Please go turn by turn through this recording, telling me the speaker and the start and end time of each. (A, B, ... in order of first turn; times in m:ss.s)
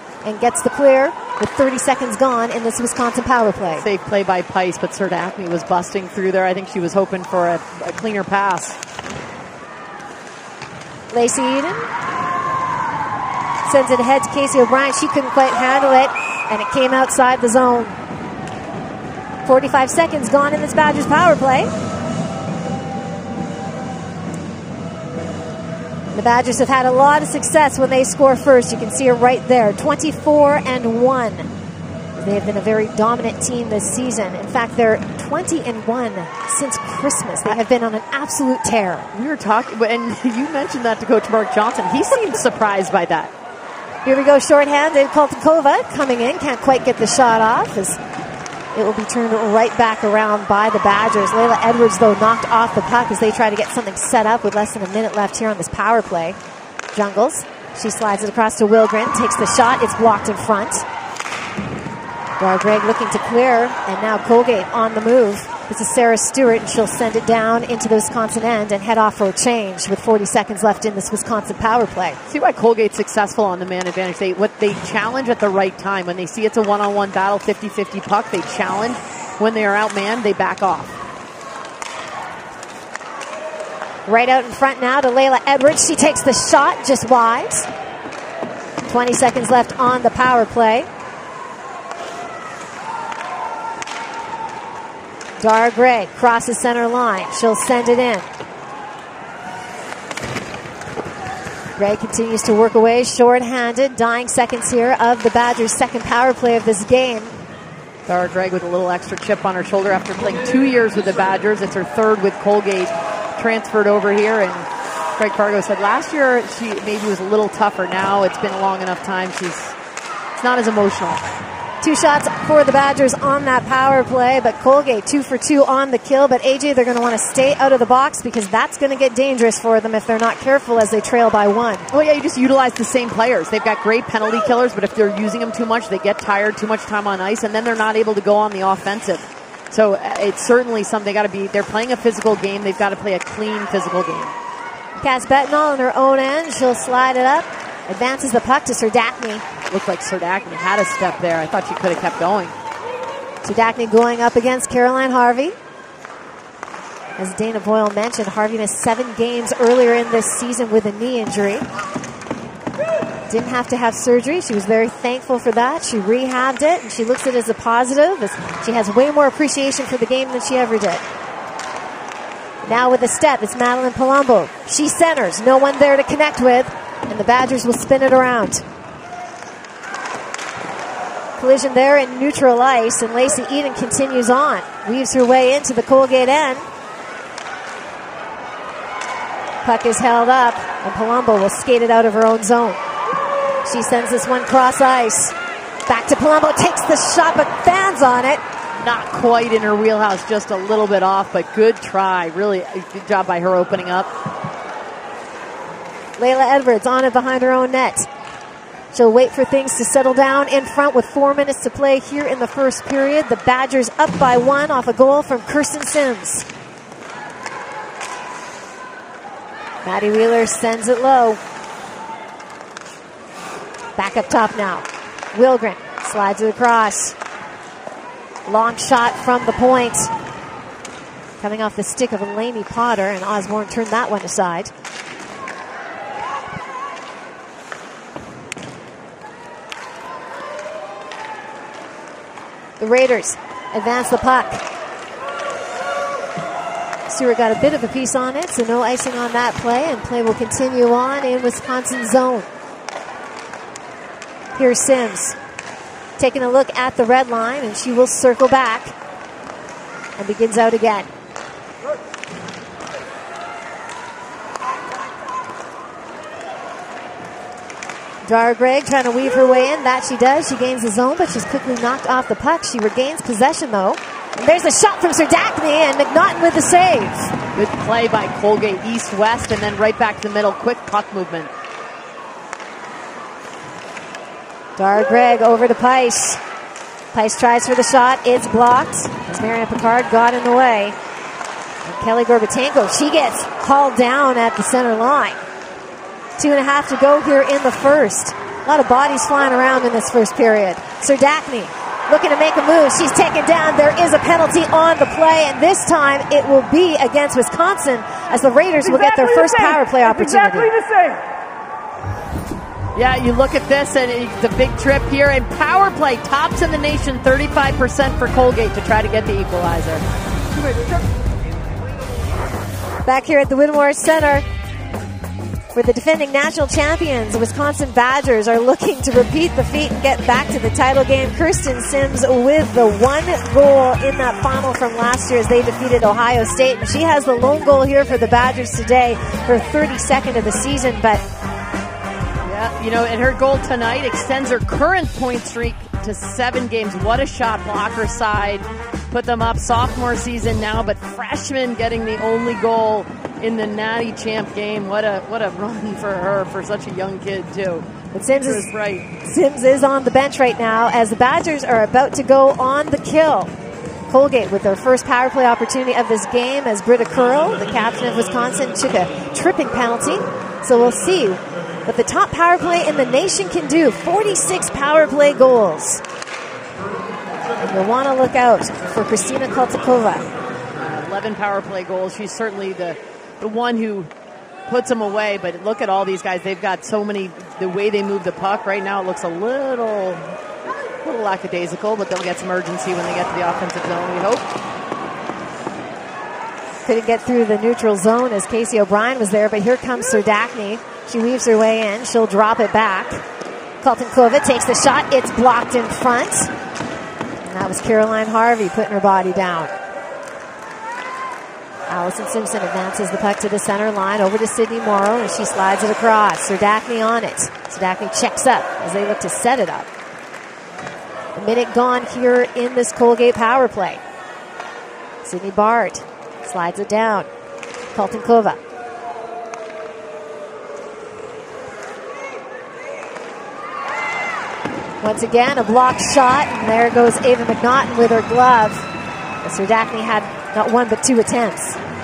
0:00.2-0:03.8 A
0:03.8-0:08.8 B
0:11.1-0:11.9 A
0:13.6-0:18.0 A
0:19.4-0:21.7 A
0:26.1-0:31.5 A
0:32.2-0:39.1 A
0:39.1-0:43.3 B
0:44.0-0:48.0 A
0:48.7-0:56.4 A
0:56.9-1:00.8 A
1:02.4-1:12.2 A
1:12.3-1:20.9 B
1:24.0-1:27.7 A
1:28.9-1:30.9 A
1:35.4-1:38.3 A
1:41.8-1:47.4 A
1:48.1-1:59.7 B
2:00.4-2:01.2 B
2:01.8-2:11.9 A
2:11.9-2:24.3 B
2:25.0-2:29.4 A
2:29.7-2:32.5 B
2:33.4-2:35.6 A
2:37.2-2:41.7 A
2:43.3-2:51.0 A
2:52.6-2:58.6 A
3:01.4-3:06.6 A
3:09.6-3:12.8 A
3:13.6-3:15.3 A
3:15.9-3:18.4 A
3:18.8-3:24.1 B
3:26.2-3:28.1 A
3:28.9-3:36.4 A
3:39.8-3:41.4 A
3:44.0-3:47.1 A
3:48.5-3:50.1 A
3:51.4-3:54.7 A
4:02.8-4:04.6 A
4:07.1-4:12.5 A
4:14.5-4:15.4 A
4:16.2-4:18.9 A
4:20.2-4:21.1 A
4:28.2-4:37.3 A
4:37.5-4:41.5 B
4:44.8-4:46.4 A
4:47.1-4:51.0 A
4:51.8-4:55.4 A
4:56.4-5:10.7 A
5:08.8-5:11.2 C
5:12.9-5:20.0 B
5:20.6-5:21.0 C
5:23.0-5:24.4 A
5:25.7-5:41.2 A
5:42.4-5:59.0 B
5:58.1-5:58.7 A
5:59.2-6:03.5 A
6:04.1-6:16.0 A
6:17.6-6:20.3 A
6:20.7-6:24.1 B
6:24.7-6:30.2 B
6:31.0-6:34.4 B
6:36.8-6:43.2 A
6:43.8-6:46.5 A
6:47.4-6:49.7 A
6:51.9-6:59.9 A
7:01.3-7:04.0 A
7:05.2-7:07.3 A
7:07.9-7:08.6 A
7:15.0-7:18.9 A
7:19.4-7:21.8 A